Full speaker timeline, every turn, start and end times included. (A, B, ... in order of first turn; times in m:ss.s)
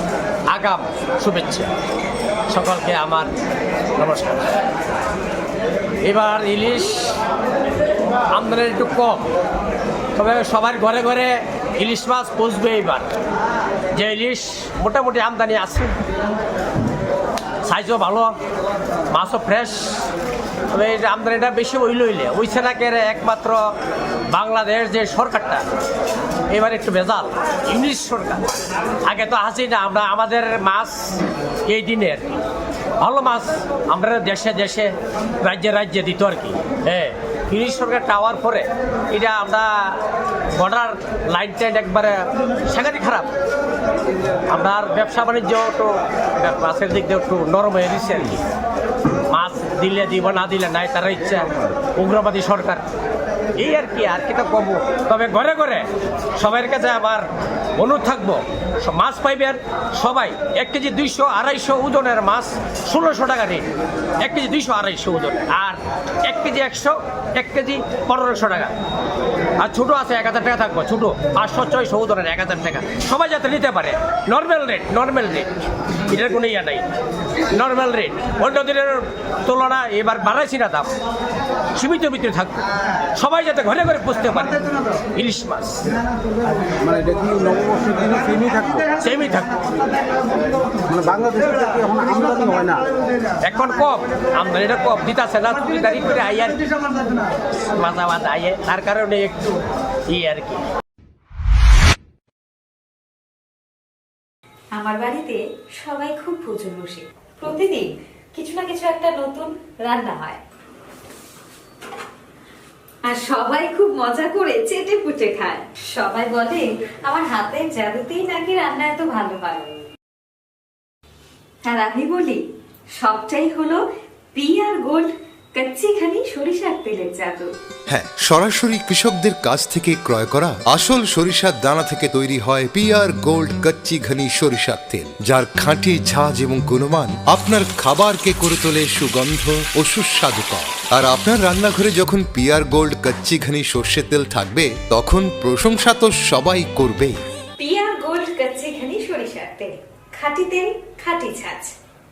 0:00.5-0:01.7 A
0:02.5-0:03.3 A
0:04.0-0:04.4 A
0:06.0-0:07.2 A
0:08.3-0:09.3 A
0:10.2-0:13.1 A
0:13.9-0:16.0 A
0:17.6-0:18.3 A
0:19.1-0:20.1 A
0:20.7-0:23.6 A
0:24.3-0:25.7 A
0:26.5-0:28.5 A
0:29.0-0:32.4 A
0:33.0-0:40.0 A
0:40.6-0:43.3 A
0:44.5-0:48.4 A
0:49.3-0:52.8 A
0:53.6-1:03.6 A
1:04.2-1:08.7 A
1:09.6-1:15.5 A
1:16.1-1:16.9 A
1:17.5-1:20.9 A
1:21.8-1:25.8 A
1:26.8-1:28.8 B
1:29.0-1:29.6 A
1:30.9-1:32.9 B
1:33.4-1:36.6 A
1:37.7-1:39.6 A
1:40.1-1:40.6 A
1:44.7-1:50.4 C
1:53.1-1:59.9 C
2:01.6-2:02.4 C
2:03.0-2:03.8 C
2:04.3-2:07.5 C
2:07.9-2:27.2 D
2:27.6-2:31.7 C